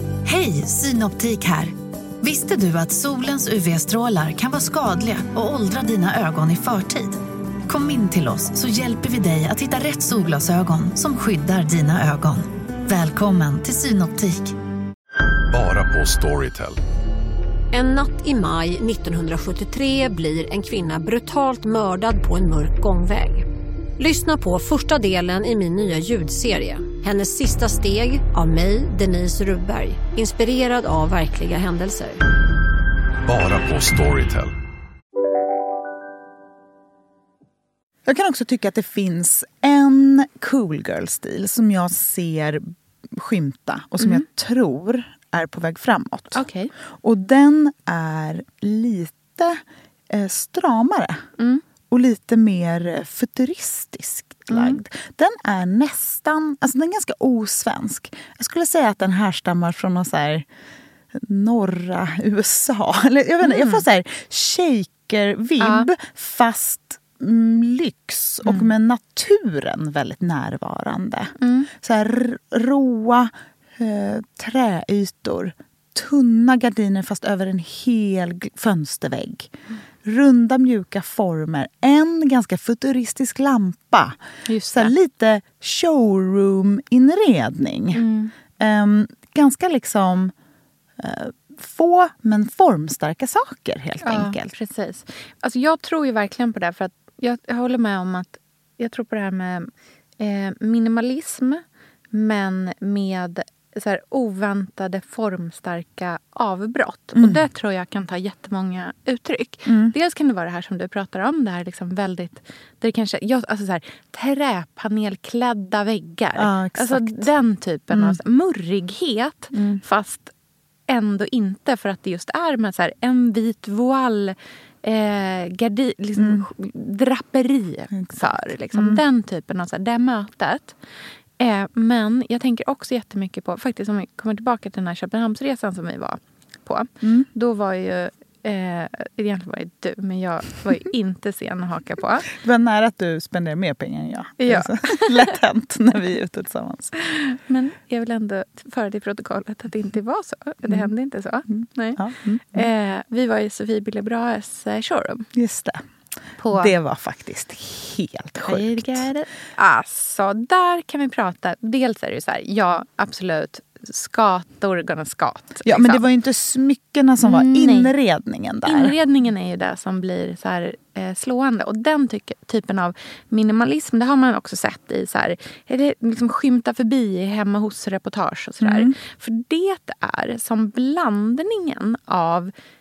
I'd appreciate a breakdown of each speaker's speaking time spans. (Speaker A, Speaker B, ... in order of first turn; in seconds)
Speaker A: 0.2-14.5
Speaker B: 15.5-16.8, 33.2-34.5
Speaker C: 17.7-23.4, 24.0-32.2
Speaker D: 38.0-46.4, 47.0-51.2, 51.9-60.5, 61.1-79.5, 80.0-84.2, 84.7-88.0, 88.6-90.3, 91.0-94.5, 107.1-107.4, 109.7-109.9, 116.4-117.3, 117.9-118.2, 119.5-119.8, 126.2-126.5, 127.9-129.0, 137.0-137.3, 142.3-146.9, 150.6-150.9, 151.5-152.7, 155.3-155.8, 156.5-159.1, 165.6-168.9, 178.6-178.9
Speaker E: 44.0-44.2, 46.3-46.7, 54.5-54.8, 63.4-63.8, 65.6-65.9, 68.5-68.7, 71.4-71.7, 84.5-84.9, 87.9-88.3, 94.0-120.3, 120.9-130.8, 131.4-142.3, 144.4-145.4, 147.0-152.0, 152.5-155.3, 156.4-156.7, 158.4-166.0, 167.2-167.9, 168.7-182.5